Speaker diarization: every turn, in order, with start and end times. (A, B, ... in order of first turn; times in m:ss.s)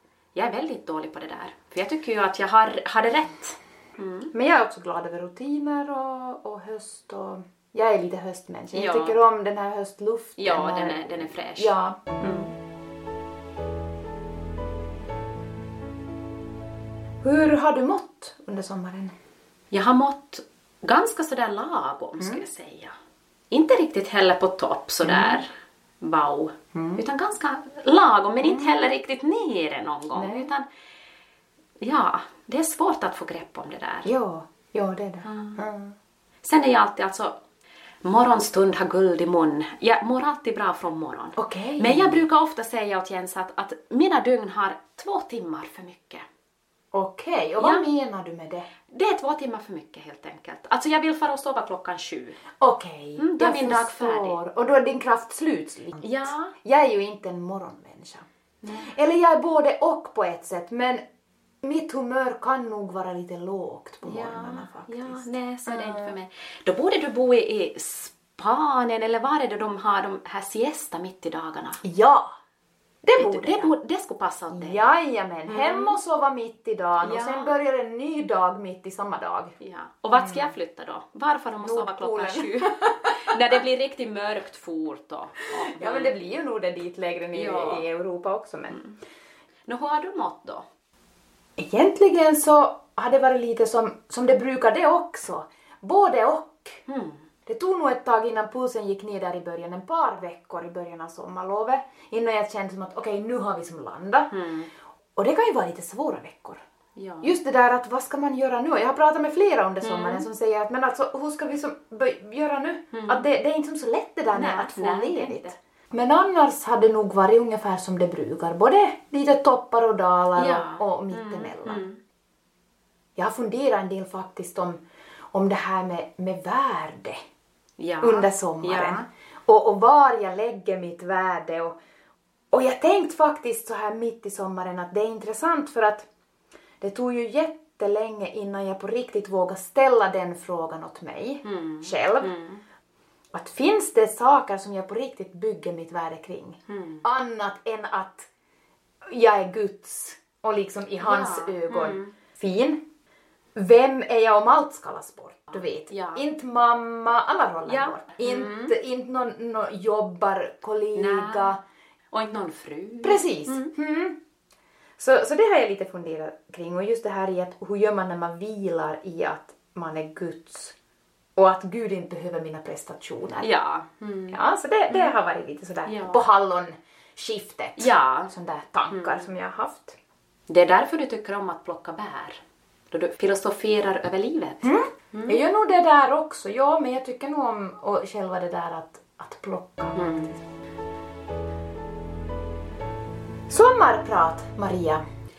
0:00.4-0:04.3 A
0:04.3-0:12.3 B
0:08.7-0:09.2 A
0:10.4-0:12.5 A
0:17.2-0:19.1 B
0:19.7-0:22.9 A
0:22.2-0:22.4 B
0:23.5-0:30.7 A
0:25.0-0:25.4 B
0:26.7-0:27.0 B
0:28.4-0:28.7 B
0:30.1-0:30.5 B
0:31.8-0:34.1 A
0:34.1-0:36.0 B
0:35.2-0:35.6 A
0:36.4-0:37.4 A
0:38.0-0:46.2 A
0:41.4-0:42.2 B
0:46.9-0:48.7 B
0:47.6-0:47.9 A
0:48.9-0:52.4 A
0:52.6-0:58.3 B
0:53.2-0:54.4 A
0:56.0-0:56.5 A
0:58.6-0:58.9 A
0:58.9-1:01.0 B
1:01.6-1:06.2 B
1:04.0-1:11.8 A
1:11.8-1:12.3 B
1:13.0-1:13.7 B
1:13.2-1:14.9 A
1:14.5-1:19.5 B
1:15.5-1:16.0 A
1:17.0-1:17.5 A
1:19.6-1:26.2 A
1:20.2-1:20.5 B
1:21.6-1:23.4 B
1:25.6-1:28.8 B
1:27.3-1:27.8 A
1:28.7-1:29.0 A
1:29.7-1:30.6 A
1:31.6-1:36.8 B
1:36.9-1:37.3 A
1:37.5-1:44.3 B
1:44.3-1:44.7 A
1:45.2-1:46.6 B
1:47.0-1:47.4 A
1:47.2-2:01.8 B
1:49.8-1:50.3 A
1:52.9-1:53.2 A
1:54.3-1:55.6 A
2:00.4-2:02.0 A
2:03.2-2:04.8 B
2:05.3-2:07.2 B
2:07.8-2:09.0 A
2:08.0-2:11.8 B
2:12.5-2:16.1 B
2:16.8-2:22.4 B
2:21.4-2:22.6 A
2:23.3-2:28.3 B
2:26.7-2:27.0 A
2:29.1-2:32.8 B
2:31.0-2:32.1 A
2:33.6-2:41.6 B
2:35.9-2:36.2 A
2:37.7-2:38.8 A
2:41.0-2:41.6 A
2:42.1-2:43.7 A
2:43.0-2:44.2 B
2:45.0-2:50.8 B
2:51.4-2:53.5 B
2:53.4-2:54.4 A
2:54.3-3:00.0 B
2:54.9-2:55.2 A
2:55.9-2:56.2 A
2:57.8-2:58.3 A
2:58.9-2:59.3 A
3:00.5-3:05.4 A
3:04.6-3:10.4 B
3:10.0-3:10.4 A
3:13.5-3:15.0 B